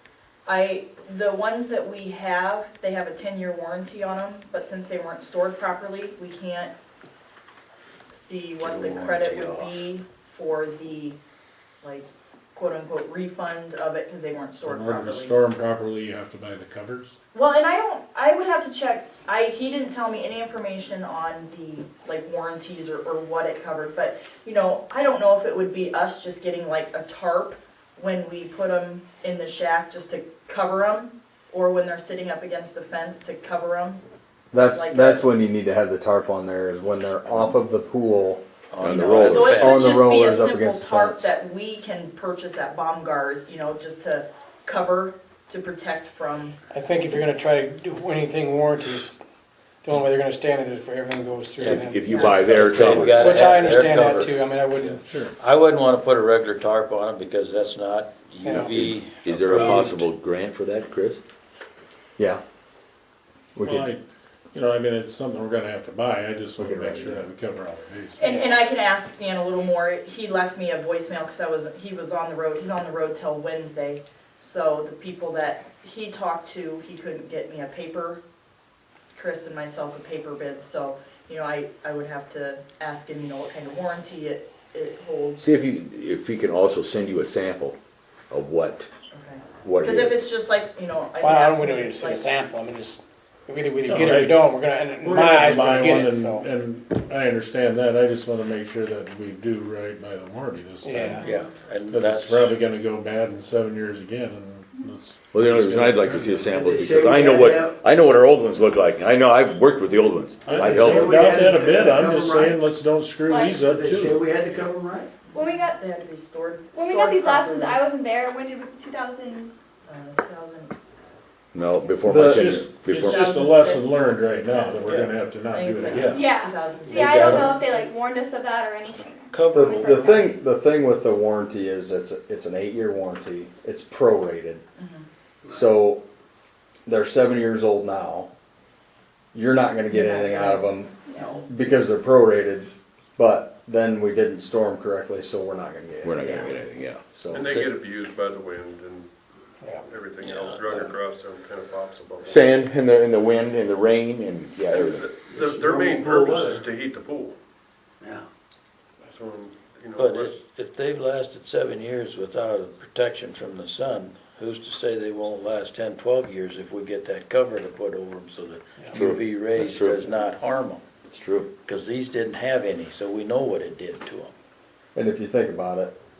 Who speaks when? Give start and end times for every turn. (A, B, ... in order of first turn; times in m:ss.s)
0:00.5-0:06.7 A
0:08.1-0:11.2 A
0:08.6-0:09.9 B
0:11.8-0:15.4 A
0:14.6-0:17.2 C
0:17.3-0:34.0 A
0:34.5-0:38.4 D
0:34.7-0:35.3 A
0:38.7-0:40.0 B
0:38.8-0:39.8 E
0:38.9-0:46.6 A
0:39.4-0:41.3 D
0:46.7-0:49.2 F
0:49.8-0:55.0 F
0:51.6-0:53.5 E
0:52.4-1:00.0 B
0:52.7-0:53.2 G
0:55.0-0:55.3 C
0:58.4-0:58.7 F
0:58.6-1:01.2 E
1:02.2-1:02.4 D
1:03.6-1:03.9 D
1:03.6-1:08.4 C
1:06.6-1:07.2 D
1:08.2-1:18.2 A
1:19.1-1:25.6 A
1:25.4-1:27.8 E
1:28.3-1:28.9 E
1:29.1-1:32.3 A
1:29.6-1:30.2 E
1:31.2-1:36.5 F
1:33.8-1:34.4 C
1:35.0-1:41.2 C
1:40.8-1:41.2 F
1:41.2-1:42.5 B
1:41.8-1:46.5 C
1:45.3-1:51.1 E
1:46.4-1:47.8 G
1:50.4-1:54.3 C
1:50.6-1:52.6 G
1:53.6-1:55.1 G
1:55.2-1:57.8 A
1:55.3-1:55.8 H
1:56.7-1:59.5 H
1:59.9-2:00.7 A
2:01.5-2:03.3 E
2:02.0-2:02.6 D
2:02.0-2:06.3 C
2:02.9-2:07.9 A
2:06.1-2:07.7 B
2:06.1-2:09.9 H
2:09.3-2:10.3 B
2:09.5-2:14.6 D
2:14.8-2:15.1 A
2:15.5-2:16.0 D
2:16.9-2:18.3 D
2:19.3-2:26.6 D
2:19.9-2:21.4 A
2:21.2-2:21.5 G
2:26.0-2:27.7 E
2:27.1-2:27.6 D
2:27.3-2:29.1 I
2:29.8-2:32.7 I
2:32.2-2:35.1 E
2:34.7-2:37.4 I
2:35.2-2:36.6 G
2:39.1-2:40.4 I
2:40.0-2:50.8 B
2:48.9-2:50.2 E
2:51.1-2:51.5 E
2:51.6-2:54.3 B
2:55.0-2:56.0 D